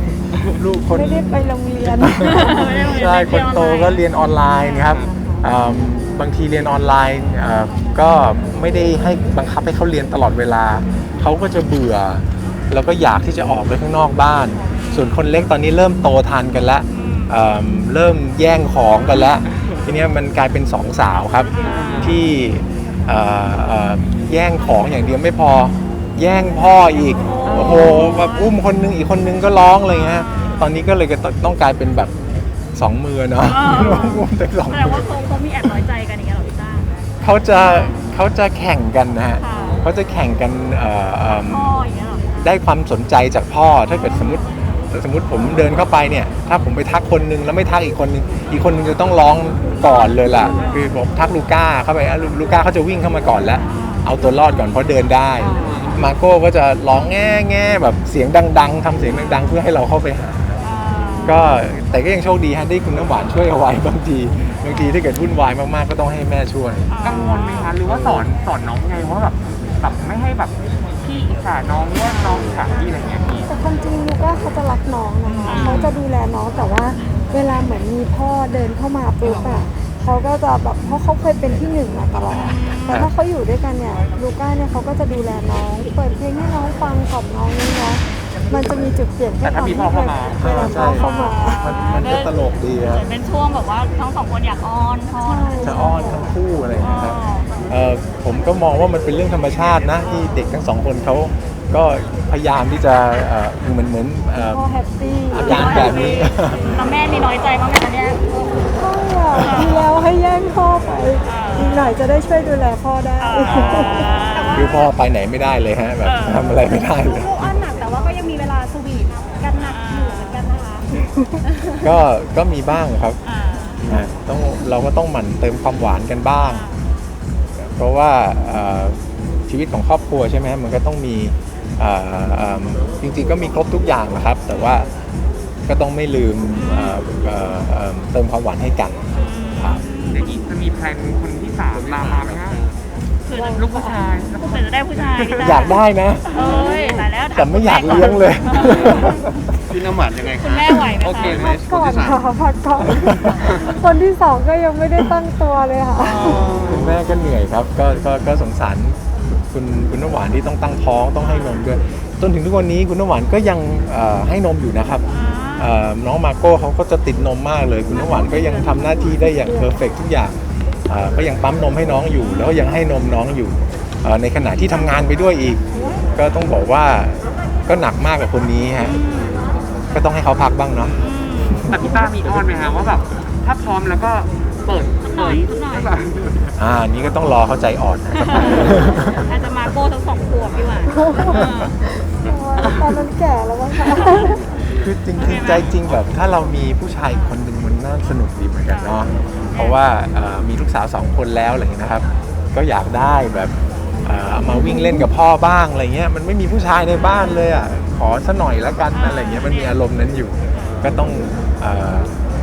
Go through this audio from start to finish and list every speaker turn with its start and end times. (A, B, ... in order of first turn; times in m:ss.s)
0:00.5-0:01.2 A
0:00.9-0:02.7 B
0:02.2-0:04.0 C
0:02.2-0:32.1 A
0:04.8-0:05.4 D
0:16.9-0:17.3 C
0:21.5-0:22.2 C
0:21.6-0:22.2 D
0:27.2-0:28.5 C
0:30.2-0:30.6 C
0:32.7-0:35.1 A
0:33.4-0:37.0 C
0:37.2-0:41.8 A
0:37.5-0:38.0 C
0:39.4-0:39.8 C
0:41.3-0:42.5 C
0:42.4-1:00.6 A
0:43.9-0:44.4 C
0:49.8-0:50.8 C
0:53.7-0:54.4 C
0:55.4-0:56.0 D
0:55.5-0:55.7 C
1:00.6-1:01.4 C
1:01.2-1:06.9 A
1:04.7-1:05.0 C
1:06.9-1:07.7 C
1:07.0-1:13.5 D
1:13.4-1:31.7 B
1:15.5-1:15.9 C
1:15.5-1:15.8 D
1:22.3-1:23.0 C
1:29.4-1:31.0 D
1:30.4-1:31.0 A
1:30.9-1:35.8 C
1:31.6-1:33.1 A
1:35.2-1:36.3 B
1:35.6-1:44.6 A
1:36.8-1:37.5 C
1:44.3-1:45.9 B
1:45.3-1:46.7 A
1:45.3-1:48.7 C
1:48.7-1:54.2 B
1:49.4-1:49.8 C
1:51.2-1:51.9 C
1:53.2-1:54.9 C
1:54.3-1:54.7 E
1:54.5-1:57.5 A
1:56.0-1:56.6 C
1:57.0-2:00.9 E
1:59.6-2:00.4 C
2:01.7-2:03.2 A
2:03.2-2:03.8 C
2:03.8-2:06.6 A
2:06.4-2:06.8 C
2:07.6-2:14.9 A
2:15.7-2:19.0 A
2:16.6-2:17.0 C
2:19.1-2:20.3 C
2:19.6-2:19.8 A
2:20.1-2:22.6 D
2:21.8-2:22.8 F
2:23.2-2:23.6 C
2:23.3-2:24.0 B
2:23.4-2:25.6 D
2:24.4-2:29.2 C
2:25.4-2:26.3 A
2:27.3-2:29.2 A
2:28.6-2:29.1 F
2:29.7-2:32.2 F
2:30.4-2:31.5 C
2:31.1-2:31.5 D
2:31.2-2:36.6 B
2:33.1-2:33.4 A
2:36.2-2:36.8 D
2:36.2-2:37.0 F
2:36.6-2:45.0 A
2:45.1-2:45.7 C
2:45.6-2:55.6 A
2:48.0-2:49.8 B
2:56.1-2:59.0 A
2:58.8-2:59.4 C
2:59.9-3:01.0 A
3:01.0-3:01.8 C
3:01.7-3:06.3 D
3:05.0-3:05.9 C
3:06.6-3:09.2 A
3:08.2-3:11.8 C
3:10.9-3:14.5 B
3:11.3-3:11.7 A
3:14.7-3:32.1 A
3:15.2-3:15.8 C
3:18.7-3:19.0 C
3:19.5-3:19.8 C
3:24.4-3:25.1 B
3:28.9-3:29.8 C